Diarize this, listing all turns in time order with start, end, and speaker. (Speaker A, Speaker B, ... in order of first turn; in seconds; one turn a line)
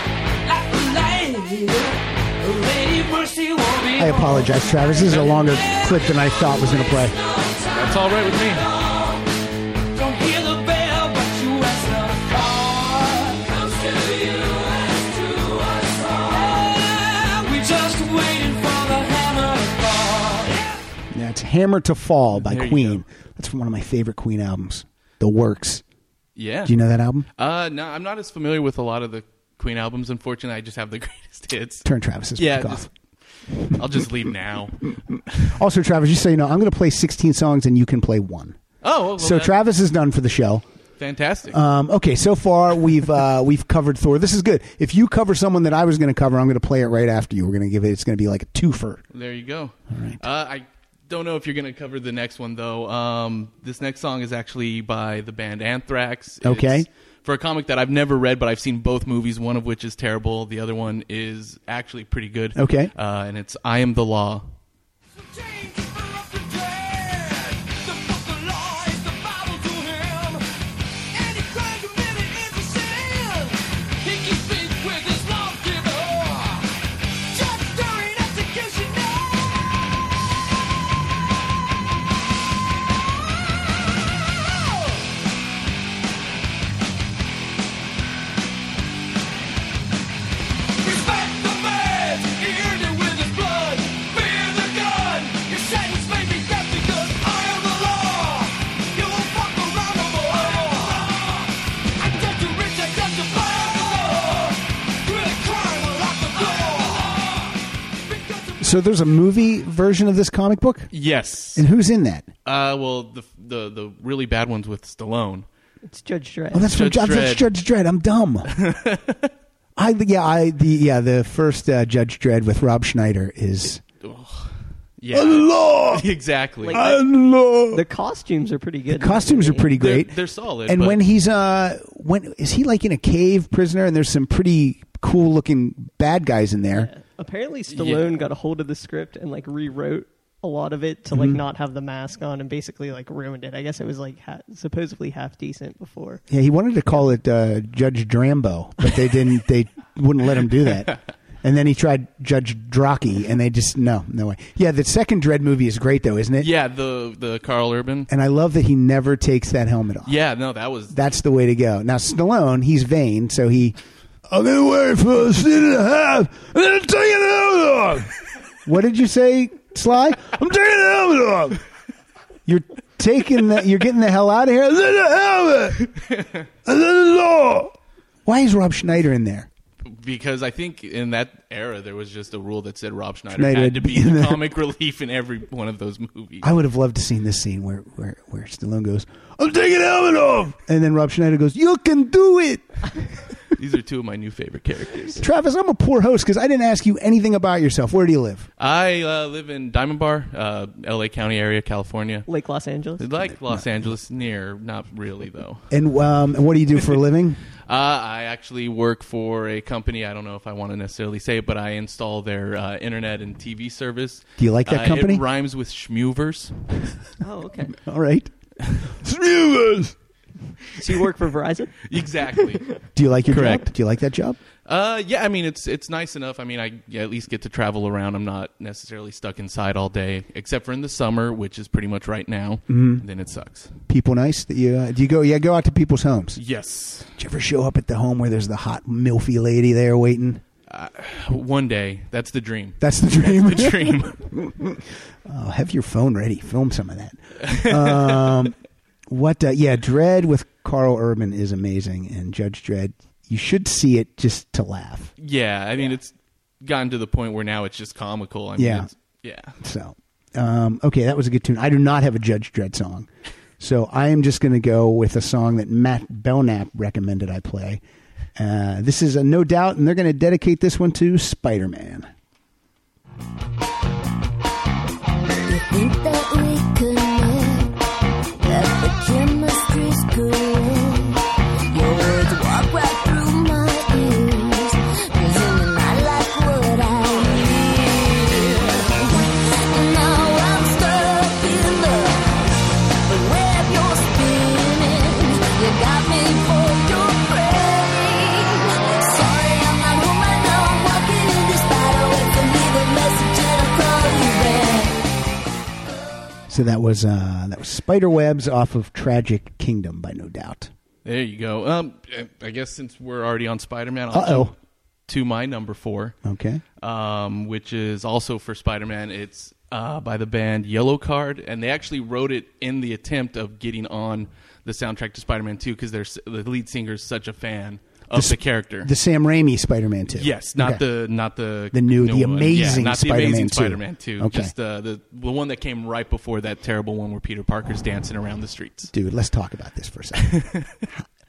Speaker A: 0.5-1.9
Speaker A: 2.4-4.1
Speaker B: 4.0-7.2
Speaker C: 7.7-8.7
Speaker A: 10.0-20.6
Speaker B: 21.1-25.8
Speaker C: 22.3-23.0
Speaker C: 26.4-26.7
Speaker B: 26.6-27.3
Speaker C: 27.4-32.9
Speaker B: 31.8-32.9
Speaker C: 33.6-35.5
Speaker B: 35.5-38.6
Speaker C: 38.8-39.6
Speaker B: 39.2-40.6
Speaker C: 41.0-41.6
Speaker B: 41.5-49.0
Speaker C: 49.1-64.5
Speaker B: 49.9-50.2
Speaker B: 56.4-56.9
Speaker B: 62.5-62.9
Speaker A: 65.3-70.4
Speaker A: 71.1-73.5
Speaker A: 74.0-76.6
Speaker A: 77.3-78.9
Speaker A: 90.9-100.8
Speaker A: 102.2-104.5
Speaker A: 105.1-107.0
Speaker B: 108.6-110.9
Speaker C: 110.9-111.7
Speaker B: 111.5-112.3
Speaker C: 112.4-115.5
Speaker D: 115.8-116.7
Speaker B: 116.5-118.5
Speaker C: 116.7-117.5
Speaker C: 118.5-119.3
Speaker B: 119.8-123.8
Speaker C: 124.0-126.8
Speaker B: 125.1-126.1
Speaker D: 126.6-127.0
Speaker B: 126.7-127.8
Speaker D: 127.7-129.7
Speaker B: 128.9-136.9
Speaker C: 129.7-131.0
Speaker D: 136.7-146.2
Speaker C: 137.7-138.1
Speaker B: 141.1-141.4
Speaker B: 146.3-156.5
Speaker C: 156.4-158.1
Speaker B: 158.1-160.2
Speaker C: 160.1-161.0
Speaker B: 160.9-168.1
Speaker B: 168.6-171.6
Speaker B: 172.4-175.9
Speaker C: 176.1-176.4
Speaker B: 176.6-179.5
Speaker C: 179.8-186.5
Speaker B: 183.3-184.4
Speaker B: 186.4-193.0
Speaker C: 193.5-195.2
Speaker B: 195.2-198.5
Speaker C: 198.6-202.3
Speaker D: 202.3-203.0
Speaker C: 203.0-205.7
Speaker B: 205.7-207.4
Speaker C: 207.6-216.5
Speaker B: 214.4-215.2
Speaker D: 217.2-217.7
Speaker B: 217.7-218.3
Speaker B: 218.8-219.9
Speaker D: 220.8-221.8
Speaker C: 221.8-222.7
Speaker B: 222.9-224.4
Speaker C: 223.3-223.7
Speaker C: 224.7-233.7
Speaker B: 232.7-233.0
Speaker B: 233.9-236.4
Speaker C: 236.3-237.1
Speaker B: 237.2-240.4
Speaker C: 240.7-244.4
Speaker B: 242.8-248.6
Speaker C: 247.4-248.3
Speaker B: 249.1-255.1
Speaker C: 255.2-259.6
Speaker B: 258.6-258.9
Speaker B: 259.6-267.8
Speaker B: 268.4-272.1
Speaker E: 275.4-277.8
Speaker E: 278.4-292.4
Speaker E: 293.1-305.0
Speaker B: 306.5-310.7
Speaker C: 311.0-314.5
Speaker B: 314.1-314.5
Speaker C: 315.1-316.1
Speaker B: 316.2-316.6
Speaker C: 316.8-328.9
Speaker B: 328.1-330.8
Speaker C: 330.1-338.9
Speaker B: 331.7-334.5
Speaker B: 338.9-341.0
Speaker C: 340.2-340.7